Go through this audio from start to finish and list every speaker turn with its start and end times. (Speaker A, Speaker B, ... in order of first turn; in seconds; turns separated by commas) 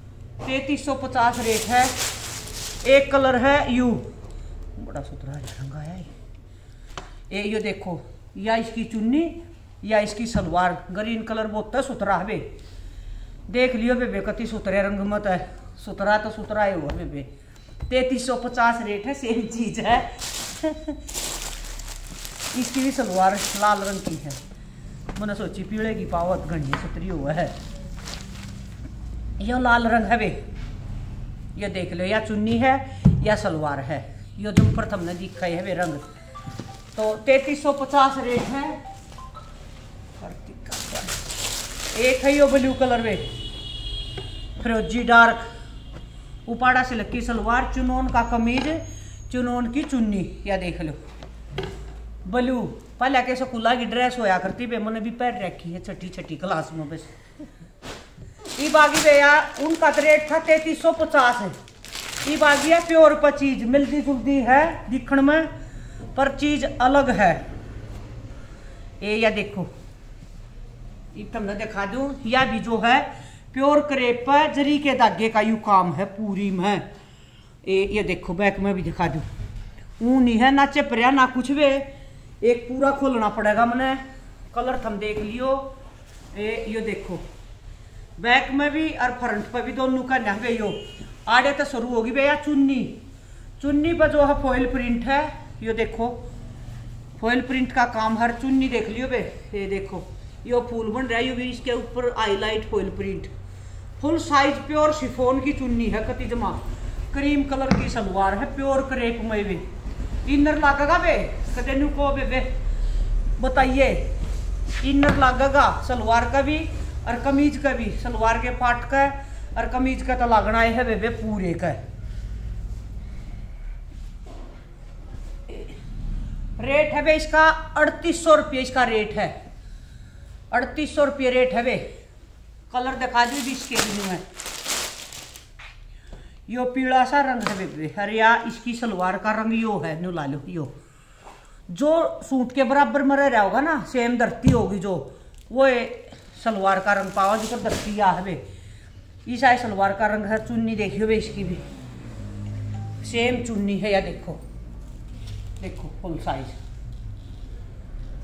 Speaker A: 0.4-1.9, Speaker A: 2.8-4.1, Speaker A: 4.8-6.1, Speaker A: 7.3-12.4, Speaker A: 13.5-17.3, Speaker A: 17.9-21.0, Speaker A: 22.5-24.4, Speaker A: 25.1-27.5, Speaker A: 29.4-30.4, Speaker A: 31.6-36.0, Speaker A: 36.9-38.8, Speaker A: 40.2-41.2, Speaker A: 41.9-43.3, Speaker A: 44.6-45.5, Speaker A: 46.5-51.0, Speaker A: 52.2-57.1, Speaker A: 58.6-61.5, Speaker A: 62.2-65.5, Speaker A: 66.1-67.4, Speaker A: 69.0-69.7, Speaker A: 71.1-76.9, Speaker A: 77.6-79.2, Speaker A: 80.0-81.9, Speaker A: 82.4-84.0, Speaker A: 84.5-85.7, Speaker A: 86.3-87.2, Speaker A: 88.2-93.0, Speaker A: 93.6-96.2, Speaker A: 97.2-103.3, Speaker A: 104.0-106.6, Speaker A: 107.1-109.6, Speaker A: 110.2-112.5, Speaker A: 113.4-114.1, Speaker A: 114.8-121.8, Speaker A: 125.5-125.8, Speaker A: 126.6-129.3, Speaker A: 130.5-131.9, Speaker A: 132.7-134.2, Speaker A: 136.5-140.7, Speaker A: 141.7-148.4, Speaker A: 149.2-151.6, Speaker A: 153.0-154.4, Speaker A: 155.6-156.6